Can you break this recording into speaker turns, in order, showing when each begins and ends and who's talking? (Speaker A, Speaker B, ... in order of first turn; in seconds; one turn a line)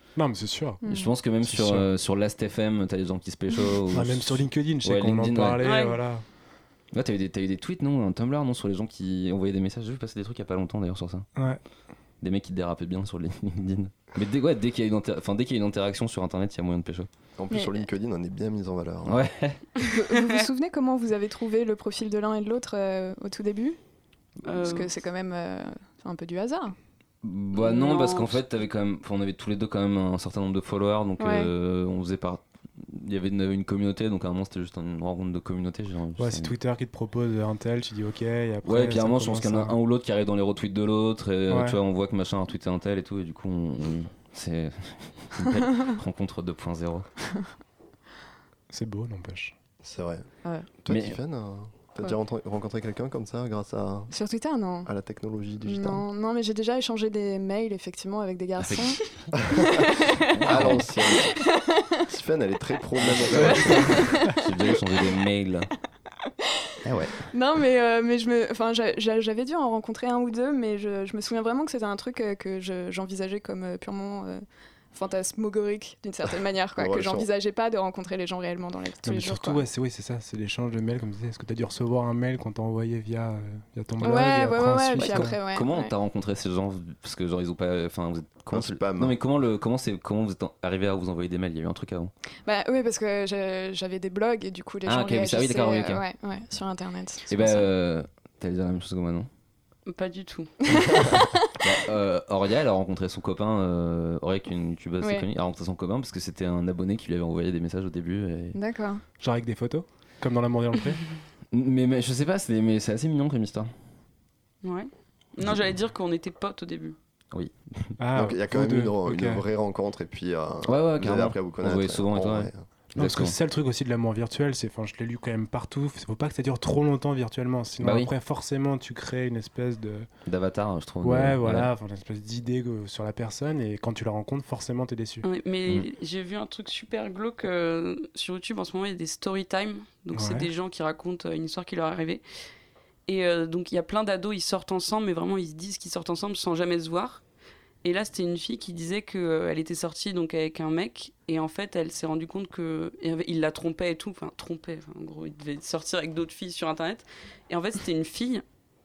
Speaker A: 0.1-0.9
Speaker B: 0.8-1.1
Speaker C: 0.8-5.7
Speaker A: 1.4-1.9
Speaker A: 3.9-6.2
Speaker D: 5.6-6.0
Speaker C: 6.9-11.3
Speaker A: 11.3-11.6
Speaker C: 12.2-17.1
Speaker E: 17.4-19.2
Speaker B: 17.5-17.8
Speaker C: 19.1-19.6
Speaker B: 19.9-23.8
Speaker D: 24.4-24.9
Speaker B: 24.6-26.7
Speaker C: 27.2-36.5
Speaker D: 27.5-28.4
Speaker B: 31.2-31.5
Speaker A: 36.2-39.8
Speaker C: 38.6-47.0
Speaker A: 41.5-41.8
Speaker A: 48.7-49.5
Speaker E: 49.8-50.3
Speaker E: 50.8-54.1
Speaker C: 50.9-51.2
Speaker B: 54.1-54.9
Speaker E: 54.9-56.0
Speaker B: 55.6-59.0
Speaker C: 58.6-59.3
Speaker B: 59.5-62.0
Speaker C: 60.3-60.9
Speaker E: 60.4-61.4
Speaker E: 62.0-64.1
Speaker C: 63.0-65.7
Speaker B: 63.5-64.4
Speaker C: 66.8-67.2
Speaker B: 67.3-74.4
Speaker B: 74.9-79.6
Speaker E: 76.8-77.3
Speaker A: 79.0-85.4
Speaker B: 84.0-85.9
Speaker C: 85.0-92.1
Speaker E: 88.5-89.2
Speaker B: 92.5-97.7
Speaker C: 94.8-96.0
Speaker C: 97.3-99.3
Speaker D: 99.9-100.5
Speaker B: 100.7-101.5
Speaker C: 101.6-108.6
Speaker B: 105.0-105.3
Speaker B: 108.5-109.0
Speaker A: 109.2-111.0
Speaker C: 111.5-113.7
Speaker D: 114.6-117.0
Speaker C: 117.3-118.0
Speaker A: 118.0-119.4
Speaker E: 118.1-122.7
Speaker C: 120.7-123.3
Speaker A: 122.9-130.1
Speaker C: 127.8-128.1
Speaker C: 130.2-131.7
Speaker A: 131.0-135.2
Speaker D: 135.2-142.2
Speaker A: 140.1-140.5
Speaker D: 143.1-147.2
Speaker D: 147.8-158.4